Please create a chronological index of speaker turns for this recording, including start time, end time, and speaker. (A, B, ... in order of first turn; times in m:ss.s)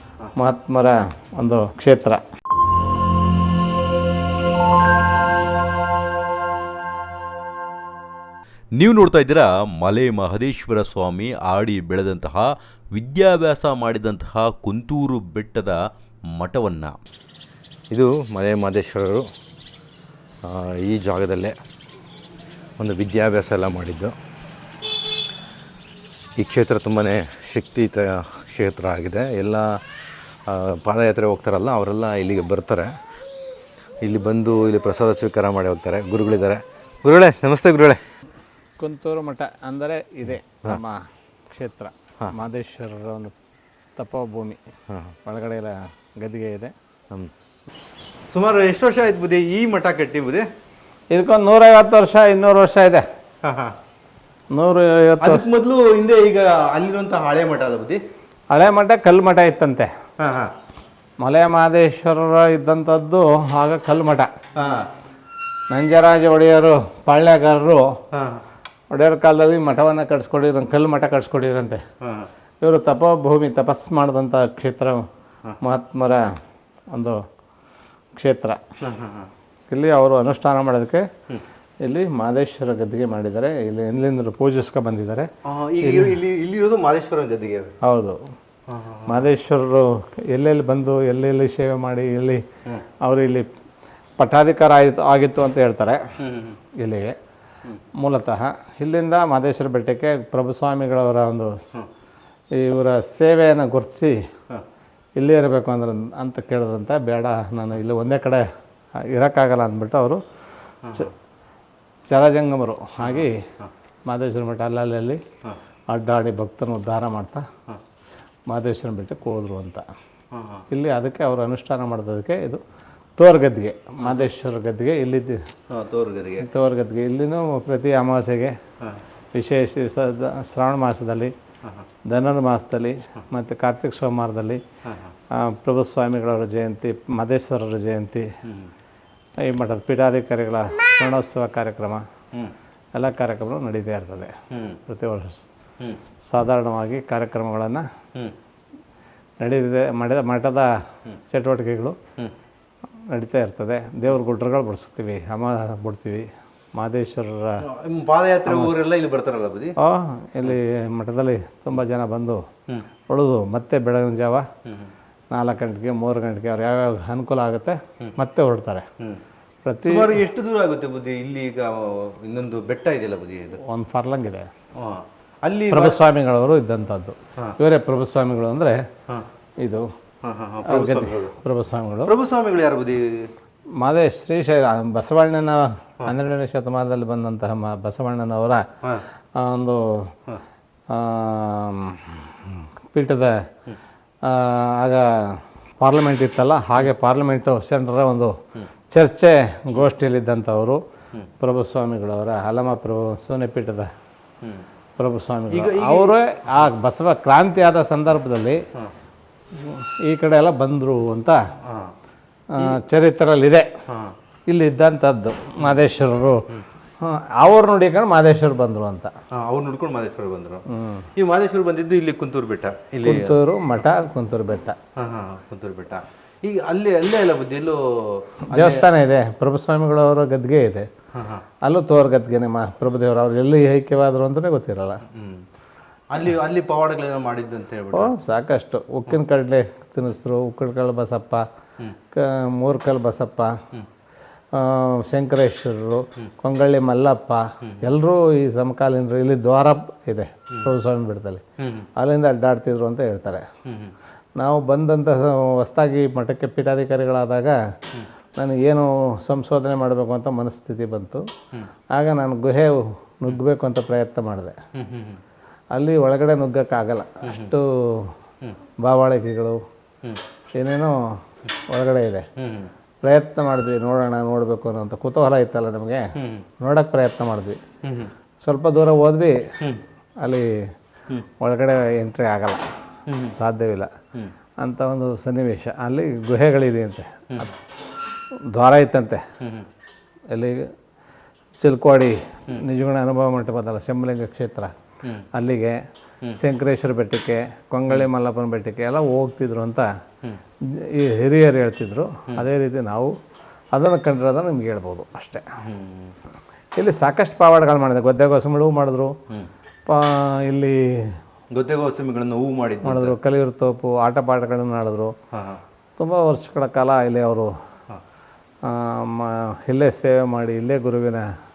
0:00.4-0:02.2 A
0:08.8-0:15.8 B
0:16.3-0:17.0 B
0:17.9-0:19.3 C
0:20.4-0:21.6 C
0:22.8-0:24.1 C
0:26.4-0:29.9 C
0:30.4-0:33.0 C
0:34.0-0:38.0 C
0:38.8-0:43.3 A
0:44.0-0:44.6 A
0:44.9-0:45.1 C
0:45.2-0:46.7 A
0:48.3-0:50.5 C
0:51.1-0:53.0 A
0:53.4-0:53.8 C
0:54.5-0:55.4 A
0:55.2-0:58.0 C
0:58.5-0:59.9 A
1:00.2-1:00.5 C
1:01.2-1:04.3 A
1:04.6-1:04.9 C
1:05.7-1:08.0 A
1:08.1-1:08.4 C
1:08.9-1:11.8 A
1:12.0-1:12.3 C
1:12.6-1:15.0 A
1:15.6-1:16.3 A
1:16.9-1:17.2 A
1:18.2-1:18.6 A
1:18.8-1:19.3 C
1:19.7-1:21.1 A
1:21.8-1:25.3 A
1:25.4-1:27.7 C
1:25.8-1:26.2 A
1:27.8-1:28.2 A
1:28.7-1:29.3 C
1:29.1-1:32.4 A
1:33.0-1:33.5 A
1:34.2-1:36.0 A
1:36.2-1:36.6 C
1:36.8-1:37.2 A
1:38.0-1:41.6 A
1:42.5-1:44.1 A
1:45.2-1:48.4 A
1:49.0-1:50.2 A
1:50.8-1:51.1 C
1:52.1-1:53.4 A
1:53.0-1:53.7 C
1:54.1-1:55.2 A
1:55.9-1:57.5 A
1:58.5-1:59.8 A
2:00.3-2:00.6 C
2:00.7-2:02.6 A
2:03.2-2:05.4 A
2:04.0-2:04.3 C
2:05.7-2:06.5 C
2:06.4-2:08.6 A
2:09.3-2:11.3 A
2:12.1-2:14.6 A
2:14.8-2:15.1 C
2:15.3-2:18.3 A
2:18.4-2:18.7 C
2:19.4-2:22.0 A
2:22.9-2:24.3 A
2:24.5-2:24.8 C
2:24.9-2:25.4 A
2:26.2-2:27.8 A
2:29.4-2:30.7 A
2:31.3-2:32.0 A
2:33.1-2:37.6 A
2:37.6-2:39.8 C
2:38.4-2:38.8 A
2:39.8-2:42.4 A
2:43.1-2:44.5 A
2:44.6-2:44.9 C
2:45.3-2:48.9 A
2:49.6-2:50.2 A
2:49.8-2:53.6 C
2:53.6-2:54.5 A
2:54.7-2:56.0 C
2:55.7-2:58.8 A
2:59.6-2:59.9 A
3:00.2-3:01.3 C
3:00.6-3:02.1 A
3:02.0-3:03.3 C
3:03.8-3:08.6 A
3:09.4-3:10.1 A
3:10.9-3:13.4 A
3:14.2-3:18.3 A
3:18.9-3:20.8 A
3:21.4-3:23.9 A
3:25.0-3:28.6 A
3:25.5-3:26.2 C
3:29.5-3:31.4 A
3:31.6-3:31.9 C
3:32.5-3:33.7 A
3:33.9-3:34.2 C
3:34.5-3:36.5 A
3:37.0-3:39.1 A
3:39.3-3:43.4 C
3:40.7-3:41.1 A
3:43.0-3:44.8 A
3:45.0-3:48.9 C
3:48.5-3:50.9 A
3:51.1-3:51.4 C
3:51.6-3:55.0 A
3:55.1-3:55.5 C
3:56.1-3:58.1 C
3:57.9-4:01.4 A
4:02.1-4:03.6 A
4:04.5-4:11.4 A
4:11.6-4:11.9 C
4:12.0-4:13.4 A
4:13.6-4:13.9 C
4:14.4-4:17.6 A
4:18.4-4:21.2 A
4:21.9-4:24.6 A
4:24.7-4:25.2 C
4:25.7-4:28.1 A
4:27.2-4:27.5 C
4:28.8-4:29.6 A
4:30.6-4:31.2 A
4:31.7-4:32.2 A
4:32.4-4:32.7 C
4:33.0-4:37.6 A
4:36.1-4:36.5 C
4:37.8-4:38.1 C
4:38.4-4:39.4 A
4:40.2-4:40.7 A
4:41.4-4:42.6 A
4:43.1-4:43.3 C
4:43.3-4:43.9 A
4:44.6-4:47.5 A
4:48.5-4:49.2 A
4:49.4-4:49.7 C
4:50.3-4:50.7 A
4:51.6-4:54.7 A
4:55.3-4:55.8 A
4:56.4-4:59.9 A
5:00.6-5:03.1 A
5:03.7-5:05.4 A
5:05.6-5:06.2 C
5:06.8-5:09.2 A
5:09.8-5:11.2 A
5:11.5-5:13.2 C
5:12.8-5:15.1 A
5:15.3-5:15.6 C
5:16.0-5:17.5 A
5:18.6-5:21.3 A